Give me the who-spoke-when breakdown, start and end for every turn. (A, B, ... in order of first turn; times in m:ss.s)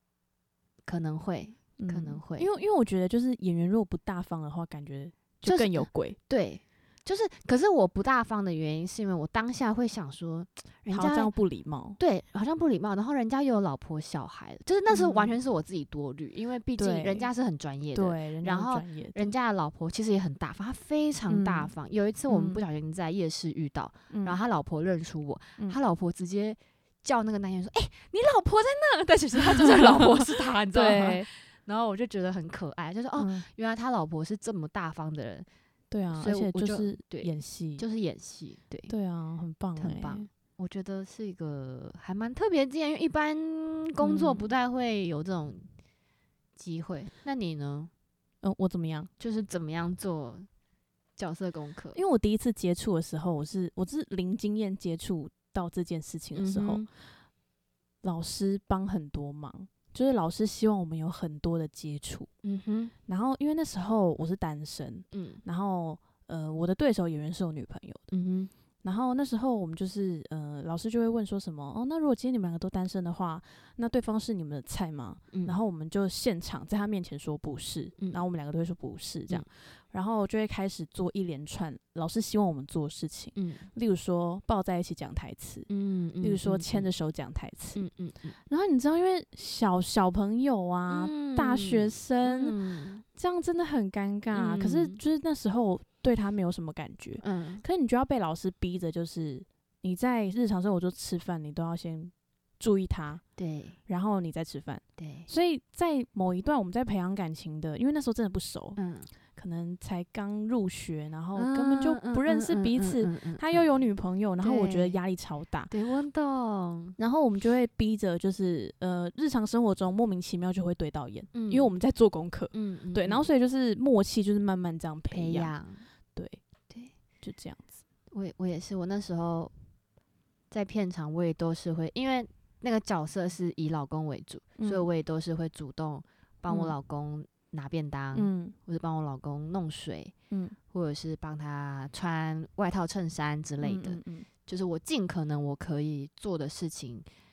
0:00.9-0:02.5 A
0:01.8-0:06.2 B
0:05.4-0:11.3 A
0:10.9-0:12.0 B
0:12.0-0:35.5 A
0:14.9-0:15.4 B
0:16.8-0:17.3 B
0:17.9-0:19.3 B
0:21.3-0:21.7 B
0:22.3-0:22.6 B
0:24.1-0:24.4 B
0:29.6-0:31.3 B
0:33.2-0:33.5 B
0:35.9-0:37.8 B
0:36.2-0:38.9 A
0:38.9-0:40.3 B
0:39.8-0:45.7 A
0:44.0-0:44.5 B
0:46.6-0:47.9 A
0:48.4-0:49.1 B
0:49.2-0:50.5 A
0:51.2-0:52.0 A
0:52.0-0:56.8 B
0:56.4-0:56.9 A
0:58.0-1:02.3 B
1:02.4-1:02.9 A
1:03.1-1:08.1 B
1:05.1-1:05.4 A
1:08.1-1:08.5 A
1:08.8-1:25.7 B
1:23.4-1:23.7 A
1:25.7-1:26.9 A
1:26.2-1:27.8 B
1:27.8-1:28.4 A
1:28.5-1:32.6 B
1:30.9-1:33.0 A
1:33.2-1:43.2 B
1:34.3-1:35.0 A
1:37.2-1:37.6 A
1:43.4-1:43.8 A
1:43.9-1:48.8 B
1:45.0-1:45.3 A
1:48.8-1:49.1 A
1:49.4-1:55.7 B
1:51.4-1:53.7 A
1:54.4-1:55.0 A
1:55.7-1:57.0 A
1:57.0-2:05.5 B
2:01.3-2:01.7 A
2:02.5-2:03.3 A
2:05.1-2:05.8 A
2:06.2-2:06.4 B
2:07.2-2:07.7 B
2:08.1-2:09.5 A
2:10.5-2:20.1 A
2:14.6-2:14.9 B
2:16.5-2:16.7 B
2:18.2-2:18.6 B
2:20.3-2:20.6 B
2:20.7-2:27.1 A
2:23.6-2:24.3 B